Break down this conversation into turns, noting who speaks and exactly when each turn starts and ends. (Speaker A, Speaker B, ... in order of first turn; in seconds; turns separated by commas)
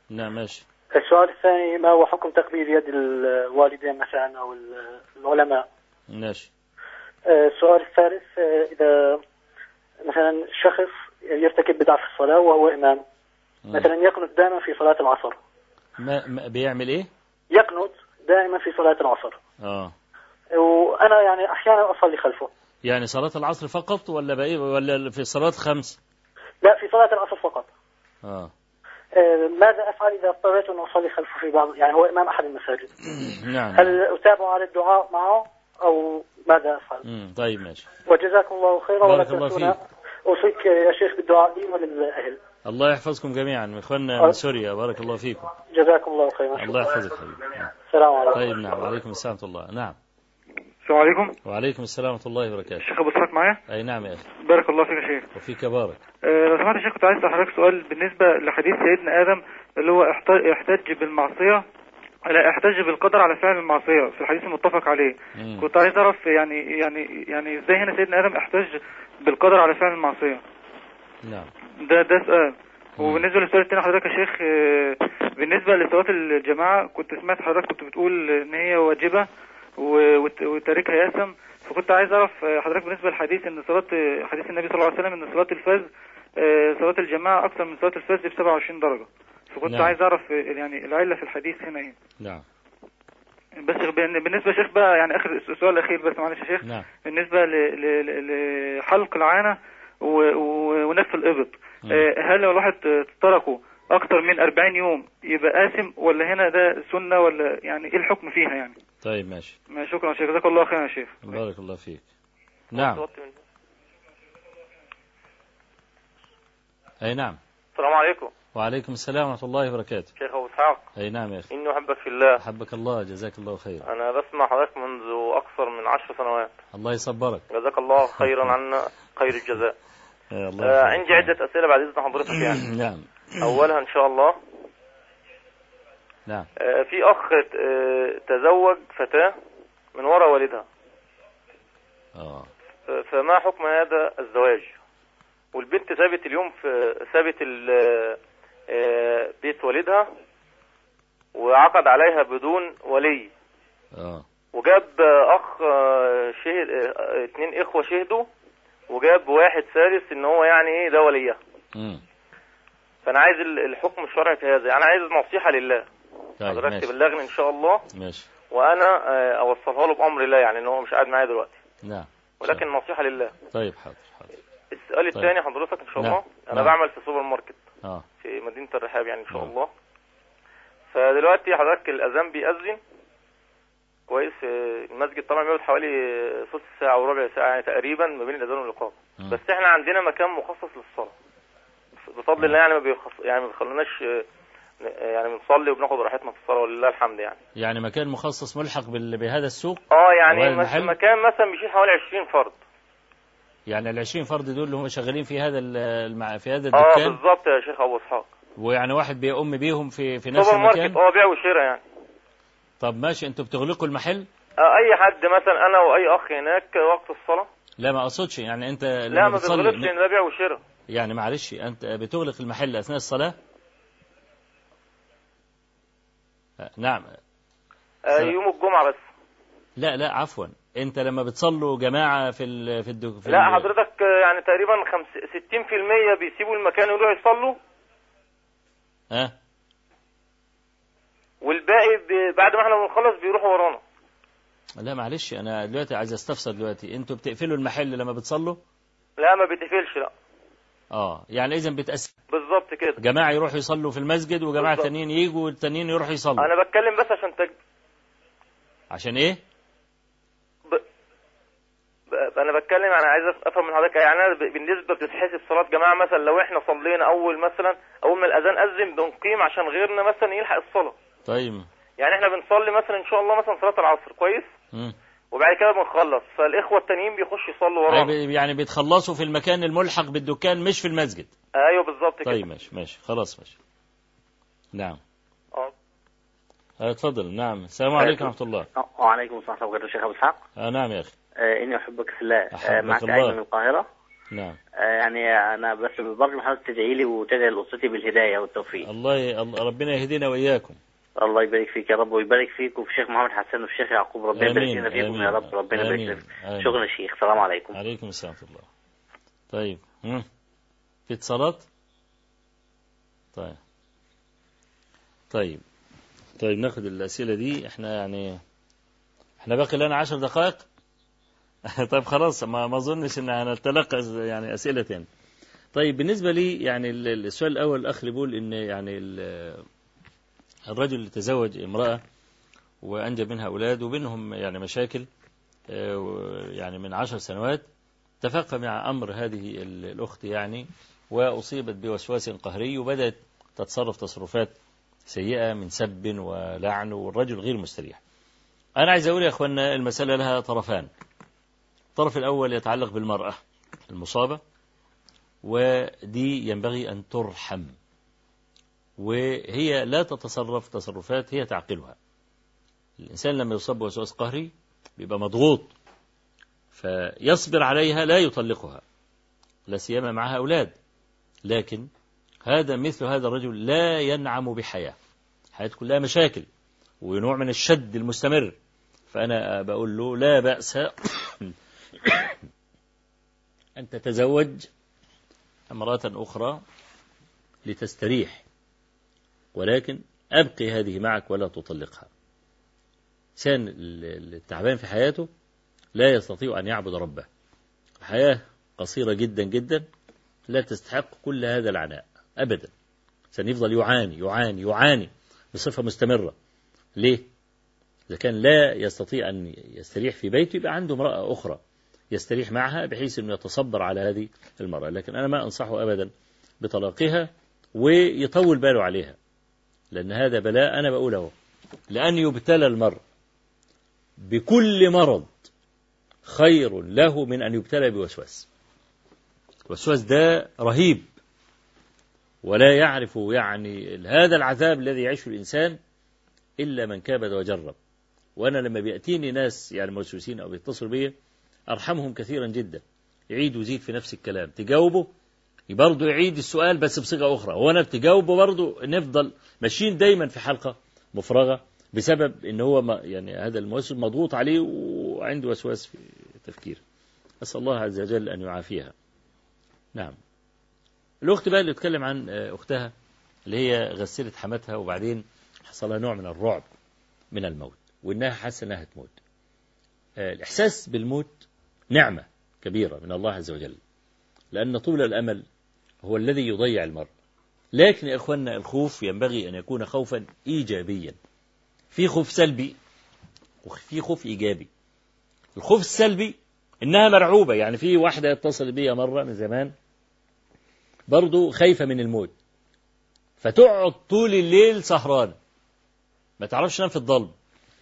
Speaker A: 0.1-0.6, Speaker B: 0.9-5.7, Speaker A: 6.1-6.5, Speaker B: 7.3-9.2, Speaker B: 10.0-13.0, Speaker B: 13.7-15.4, Speaker A: 16.0-17.1, Speaker B: 17.5-19.4, Speaker A: 19.6-19.9, Speaker B: 20.6-22.5, Speaker A: 22.9-26.0, Speaker B: 26.6-27.7, Speaker A: 28.2-28.5, Speaker B: 29.1-32.9, Speaker A: 33.2-34.0, Speaker B: 33.8-37.0, Speaker A: 37.0-37.9, Speaker B: 38.0-42.4, Speaker A: 39.0-39.7, Speaker A: 42.6-45.5, Speaker B: 45.7-47.0, Speaker A: 46.5-47.7, Speaker B: 47.8-48.8, Speaker A: 48.3-50.0, Speaker C: 50.8-51.4, Speaker A: 51.4-52.8, Speaker C: 52.8-53.6, Speaker A: 53.7-54.2, Speaker C: 54.4-55.3, Speaker A: 55.3-56.0, Speaker C: 56.3-61.6, Speaker C: 62.3-70.4, Speaker A: 65.3-65.7, Speaker A: 71.2-71.5, Speaker C: 71.8-79.3, Speaker A: 73.0-73.3, Speaker C: 79.8-85.9, Speaker C: 86.4-92.0, Speaker A: 89.7-90.0, Speaker C: 93.6-108.8, Speaker A: 109.0-109.5, Speaker C: 109.7-111.4, Speaker A: 111.2-112.0, Speaker A: 112.7-113.0, Speaker D: 112.7-113.4, Speaker A: 117.0-117.4, Speaker D: 117.8-118.3, Speaker A: 118.5-120.1, Speaker D: 120.2-120.9, Speaker A: 121.0-121.5, Speaker D: 121.5-122.4, Speaker A: 122.4-123.8, Speaker D: 123.8-126.5, Speaker A: 126.7-127.5, Speaker D: 127.5-129.7, Speaker A: 128.2-128.5, Speaker A: 130.3-131.3, Speaker D: 130.6-132.7, Speaker A: 132.4-133.6, Speaker D: 133.4-134.4, Speaker D: 136.6-139.3, Speaker D: 139.9-140.7, Speaker A: 142.2-142.5, Speaker D: 142.9-144.7, Speaker D: 145.5-148.2, Speaker D: 148.7-150.1, Speaker D: 151.3-153.3, Speaker A: 153.9-154.2, Speaker D: 154.5-158.3, Speaker D: 158.9-161.4, Speaker A: 161.8-162.0, Speaker D: 163.0-165.9, Speaker A: 166.4-166.9, Speaker D: 166.4-167.8, Speaker A: 167.9-168.3, Speaker D: 168.5-171.6, Speaker A: 171.8-172.6, Speaker D: 172.4-173.3, Speaker A: 173.5-174.3, Speaker D: 174.7-177.6, Speaker A: 176.0-176.7, Speaker D: 178.2-179.7, Speaker D: 180.9-182.8, Speaker D: 184.1-191.1, Speaker D: 192.1-194.2, Speaker D: 194.8-197.4, Speaker A: 197.6-200.9, Speaker D: 199.9-202.6, Speaker A: 203.7-207.2, Speaker D: 206.7-208.3, Speaker A: 208.6-211.0, Speaker D: 210.3-211.8, Speaker A: 212.8-214.3, Speaker D: 214.6-217.5, Speaker A: 217.8-219.9, Speaker D: 219.1-220.6, Speaker A: 220.9-223.3, Speaker A: 226.6-227.2, Speaker D: 228.1-229.0, Speaker A: 229.8-233.7, Speaker D: 233.3-237.6, Speaker D: 241.4-243.8, Speaker A: 244.8-248.6, Speaker D: 249.2-250.1, Speaker A: 250.9-252.1, Speaker D: 252.3-253.0, Speaker A: 253.0-256.5, Speaker D: 254.6-254.9, Speaker D: 256.4-257.5, Speaker A: 258.9-259.4, Speaker D: 262.1-270.9, Speaker A: 271.3-271.7, Speaker D: 272.0-274.5, Speaker D: 275.3-278.1, Speaker A: 277.9-281.3, Speaker D: 281.6-282.4, Speaker A: 282.2-283.6, Speaker A: 286.8-288.7, Speaker E: 288.0-290.4, Speaker A: 290.6-291.1, Speaker E: 291.4-293.8, Speaker A: 292.5-293.4, Speaker A: 294.3-294.6, Speaker E: 294.8-298.8, Speaker A: 298.8-300.8, Speaker E: 301.2-307.7, Speaker A: 304.3-306.8, Speaker A: 307.7-308.7, Speaker A: 309.5-310.2, Speaker A: 311.1-311.6, Speaker A: 315.3-315.6, Speaker A: 316.4-318.4, Speaker A: 319.4-320.6, Speaker A: 321.7-325.1, Speaker A: 325.7-329.6, Speaker A: 330.7-332.0, Speaker A: 332.8-335.1, Speaker A: 335.7-337.6, Speaker A: 338.2-344.5, Speaker A: 345.1-348.0, Speaker A: 348.8-350.9, Speaker A: 351.9-354.4, Speaker A: 355.4-357.8, Speaker A: 359.0-361.9, Speaker A: 363.0-365.7, Speaker A: 366.7-368.8, Speaker A: 369.7-370.7, Speaker A: 371.4-371.9, Speaker A: 372.4-374.9, Speaker A: 375.6-376.5, Speaker A: 377.0-378.6, Speaker A: 379.1-382.4, Speaker A: 383.8-384.7, Speaker A: 385.7-386.6, Speaker A: 387.6-388.4, Speaker A: 389.5-392.1, Speaker A: 393.4-395.3, Speaker A: 395.9-397.3, Speaker A: 398.0-399.8, Speaker A: 400.5-402.7, Speaker A: 403.3-406.3, Speaker A: 407.0-407.2, Speaker A: 408.1-411.6, Speaker A: 412.1-416.1, Speaker A: 416.6-419.2, Speaker A: 419.9-421.3, Speaker A: 421.9-423.0, Speaker A: 424.2-425.5, Speaker A: 426.2-428.5, Speaker A: 429.7-431.1, Speaker A: 432.4-435.8, Speaker A: 436.6-437.8, Speaker A: 438.4-441.1, Speaker A: 441.7-445.1, Speaker A: 445.7-456.8, Speaker A: 457.4-458.9, Speaker A: 461.2-462.9, Speaker A: 463.5-466.6, Speaker A: 467.3-469.1, Speaker A: 470.2-473.8, Speaker A: 474.5-475.4, Speaker A: 476.0-477.1, Speaker A: 477.7-481.1, Speaker A: 481.9-482.8, Speaker A: 483.6-484.7, Speaker A: 485.6-489.7, Speaker A: 491.1-492.3, Speaker A: 493.4-495.4, Speaker A: 496.4-497.3